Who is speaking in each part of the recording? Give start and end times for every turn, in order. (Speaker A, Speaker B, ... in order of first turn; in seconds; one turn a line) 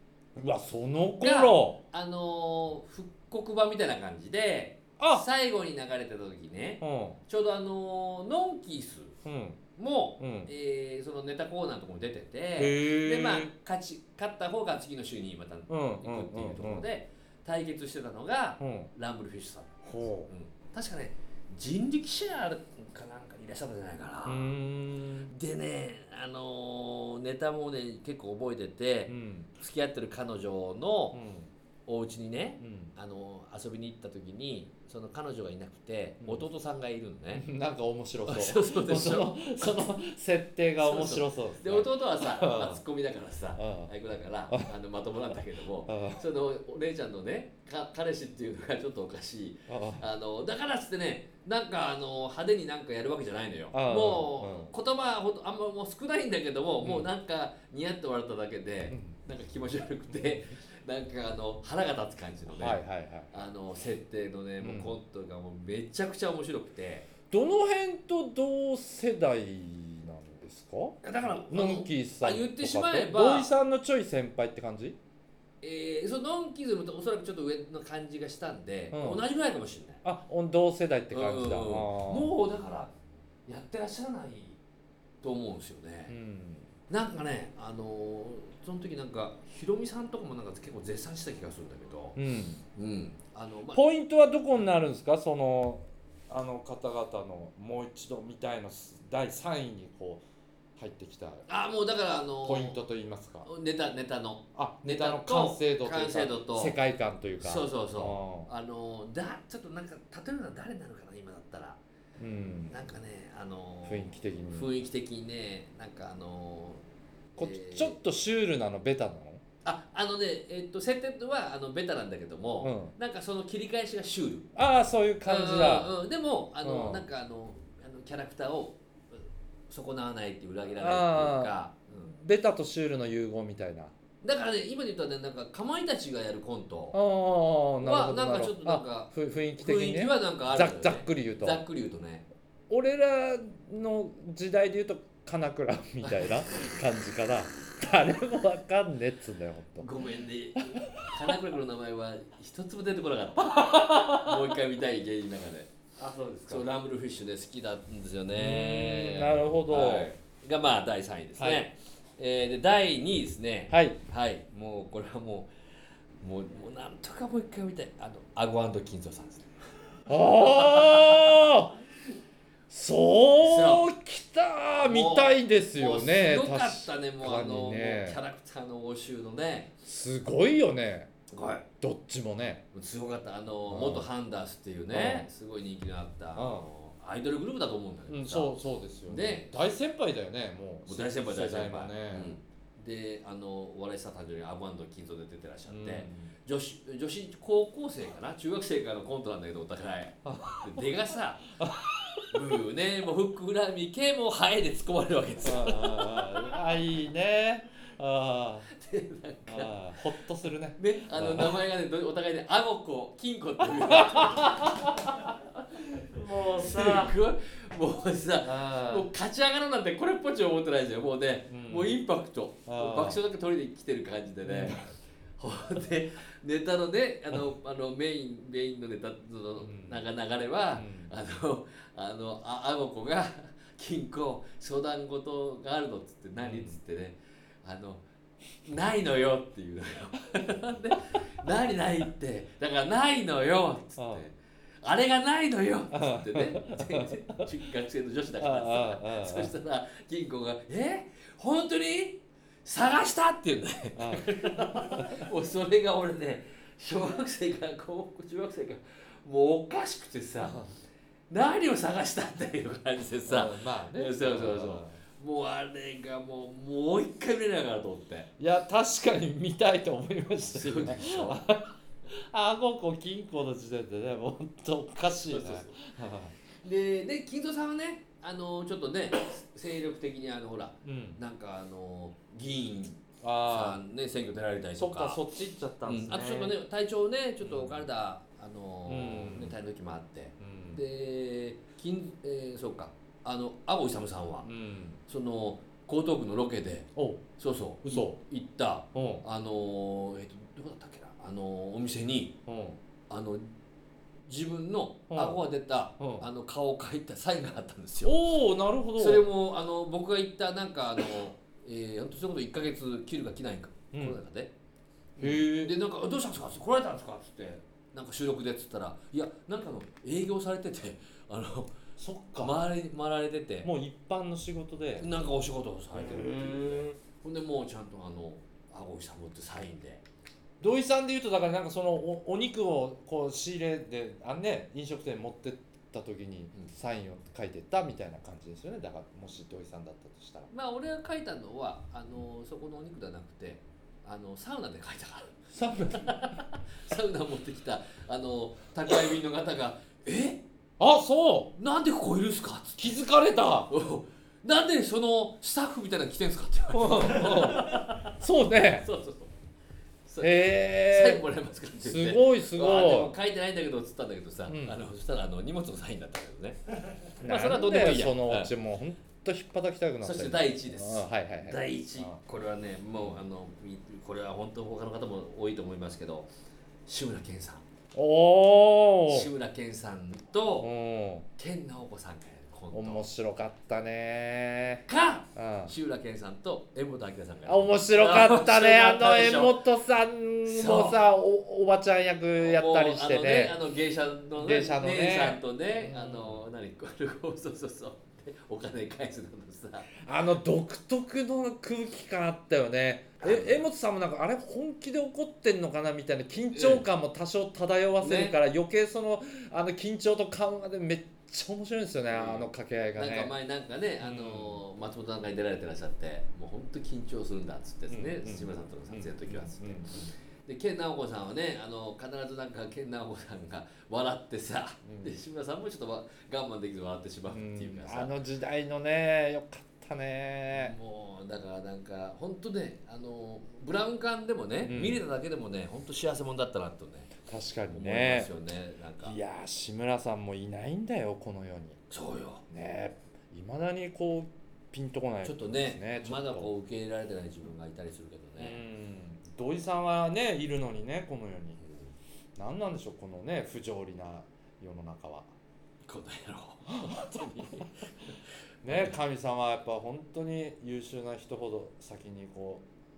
Speaker A: 0.3-1.8
Speaker B: 1.2-9.2
Speaker A: 5.0-5.2
Speaker A: 6.8-7.2
Speaker A: 9.2-9.6
Speaker B: 9.8-24.6
Speaker A: 10.2-10.5
Speaker A: 12.6-13.5
Speaker A: 15.7-16.9
Speaker A: 18.6-18.9
Speaker A: 19.8-20.3
Speaker A: 24.2-25.3
Speaker B: 25.2-31.2
Speaker A: 29.1-29.5
Speaker A: 31.1-31.5
Speaker B: 31.9-37.4
Speaker A: 32.6-32.9
Speaker A: 37.3-42.8
Speaker B: 38.2-39.9
Speaker B: 40.8-67.1
Speaker A: 43.5-43.9
Speaker A: 45.9-46.2
Speaker A: 49.7-50.0
Speaker A: 53.7-54.7
Speaker A: 56.8-57.1
Speaker A: 58.9-59.2
Speaker A: 62.5-63.3
Speaker A: 64.6-64.9
Speaker A: 67.3-75.0
Speaker B: 71.0-73.5
Speaker B: 75.6-80.0
Speaker A: 78.9-79.2
Speaker A: 80.0-82.3
Speaker B: 81.1-82.9
Speaker B: 83.5-84.6
Speaker B: 85.2-86.1
Speaker A: 86.1-86.7
Speaker B: 86.9-92.2
Speaker A: 92.2-92.6
Speaker B: 92.7-93.8
Speaker A: 93.7-100.2
Speaker A: 100.8-101.5
Speaker B: 101.5-102.8
Speaker A: 102.4-103.5
Speaker B: 103.4-106.8
Speaker A: 104.5-108.5
Speaker B: 107.4-111.8
Speaker A: 112.2-112.8
Speaker B: 112.7-116.8
Speaker A: 113.8-114.7
Speaker B: 117.4-118.0
Speaker A: 117.4-119.4
Speaker B: 119.6-124.5
Speaker A: 122.6-122.9
Speaker A: 124.5-125.9
Speaker B: 125.2-132.1
Speaker A: 126.6-127.1
Speaker A: 130.8-131.5
Speaker A: 132.0-133.9
Speaker B: 134.2-137.0
Speaker A: 136.9-141.6
Speaker B: 137.8-142.2
Speaker A: 142.7-149.9
Speaker B: 146.1-146.5
Speaker B: 149.8-155.9
Speaker A: 150.6-151.2
Speaker A: 153.9-154.3
Speaker A: 156.0-156.6
Speaker B: 156.4-165.5
Speaker A: 158.3-160.1
Speaker A: 161.4-161.7
Speaker A: 163.7-164.0
Speaker B: 166.2-169.5
Speaker A: 170.1-171.7
Speaker B: 170.1-171.4
Speaker A: 172.7-178.2
Speaker B: 173.4-173.9
Speaker B: 174.8-179.7
Speaker A: 179.8-181.1
Speaker B: 181.3-181.7
Speaker A: 181.8-182.6
Speaker B: 182.7-188.5
Speaker A: 183.7-184.1
Speaker A: 184.9-185.3
Speaker A: 186.3-186.7
Speaker A: 188.1-192.4
Speaker B: 189.1-189.5
Speaker B: 190.8-201.5
Speaker A: 195.7-196.3
Speaker A: 200.2-200.9
Speaker A: 201.6-202.4
Speaker B: 202.3-206.5
Speaker A: 205.4-208.7
Speaker B: 208.7-210.1
Speaker A: 209.5-211.6
Speaker B: 210.7-215.8
Speaker A: 213.8-215.3
Speaker A: 216.0-217.2
Speaker B: 216.4-238.0
Speaker A: 218.4-219.1
Speaker A: 221.5-222.0
Speaker A: 222.7-223.2
Speaker A: 224.4-224.8
Speaker A: 229.6-230.0
Speaker A: 230.7-231.1
Speaker A: 236.4-236.8
Speaker B: 238.6-260.6
Speaker A: 244.0-244.2
Speaker A: 245.9-247.4
Speaker A: 248.4-249.5
Speaker A: 253.9-254.3
Speaker A: 260.4-260.6
Speaker B: 261.3-268.3
Speaker A: 263.3-265.0
Speaker A: 268.4-276.3
Speaker B: 270.4-271.4
Speaker B: 275.2-275.8
Speaker B: 276.6-285.2
Speaker A: 280.8-281.2
Speaker A: 283.2-283.8
Speaker A: 284.8-286.6
Speaker B: 285.9-294.5
Speaker A: 287.4-287.9
Speaker A: 288.9-289.5
Speaker A: 290.4-290.8
Speaker A: 294.4-295.0
Speaker B: 295.1-302.4
Speaker A: 296.9-297.2
Speaker A: 297.8-298.2
Speaker A: 298.9-299.2
Speaker A: 302.5-302.8
Speaker B: 303.1-303.5
Speaker B: 304.3-308.2
Speaker A: 305.1-305.4
Speaker A: 306.0-306.3
Speaker A: 308.0-309.2
Speaker B: 308.9-314.5
Speaker A: 313.9-314.2
Speaker B: 315.2-321.7
Speaker A: 315.2-315.7
Speaker A: 322.0-322.6
Speaker B: 322.4-323.7
Speaker A: 323.6-325.1
Speaker B: 325.0-330.0
Speaker A: 325.9-326.7
Speaker A: 330.6-340.5
Speaker B: 340.5-350.4
Speaker A: 345.5-346.4
Speaker A: 350.8-351.5
Speaker B: 351.5-353.0
Speaker A: 352.8-353.7
Speaker B: 353.7-359.3
Speaker A: 356.7-358.9
Speaker B: 360.1-368.5
Speaker A: 360.2-361.2
Speaker A: 361.8-363.1
Speaker A: 364.5-364.8
Speaker A: 367.2-372.2
Speaker B: 370.0-376.3
Speaker A: 372.9-373.2
Speaker B: 376.9-377.6
Speaker A: 377.9-379.3
Speaker B: 379.1-380.7
Speaker A: 380.6-381.2
Speaker B: 381.4-383.0
Speaker A: 382.7-385.7
Speaker B: 384.9-389.6
Speaker A: 387.4-393.6
Speaker B: 390.4-391.0
Speaker B: 392.4-399.9
Speaker A: 394.3-396.4
Speaker A: 400.0-413.3
Speaker B: 403.2-403.6
Speaker B: 406.5-406.8
Speaker B: 408.0-408.3
Speaker B: 412.1-428.2
Speaker A: 414.0-414.6
Speaker A: 417.9-419.9
Speaker A: 424.8-425.1
Speaker A: 427.3-430.8
Speaker B: 430.5-437.1
Speaker A: 434.6-435.0
Speaker A: 437.3-438.3
Speaker B: 437.7-439.1
Speaker A: 439.0-441.8
Speaker B: 441.9-442.4
Speaker A: 442.5-446.5
Speaker B: 445.2-448.6
Speaker A: 448.4-451.6
Speaker B: 451.6-451.9
Speaker A: 452.4-455.3
Speaker B: 455.9-458.9
Speaker A: 456.7-457.6
Speaker A: 458.6-462.6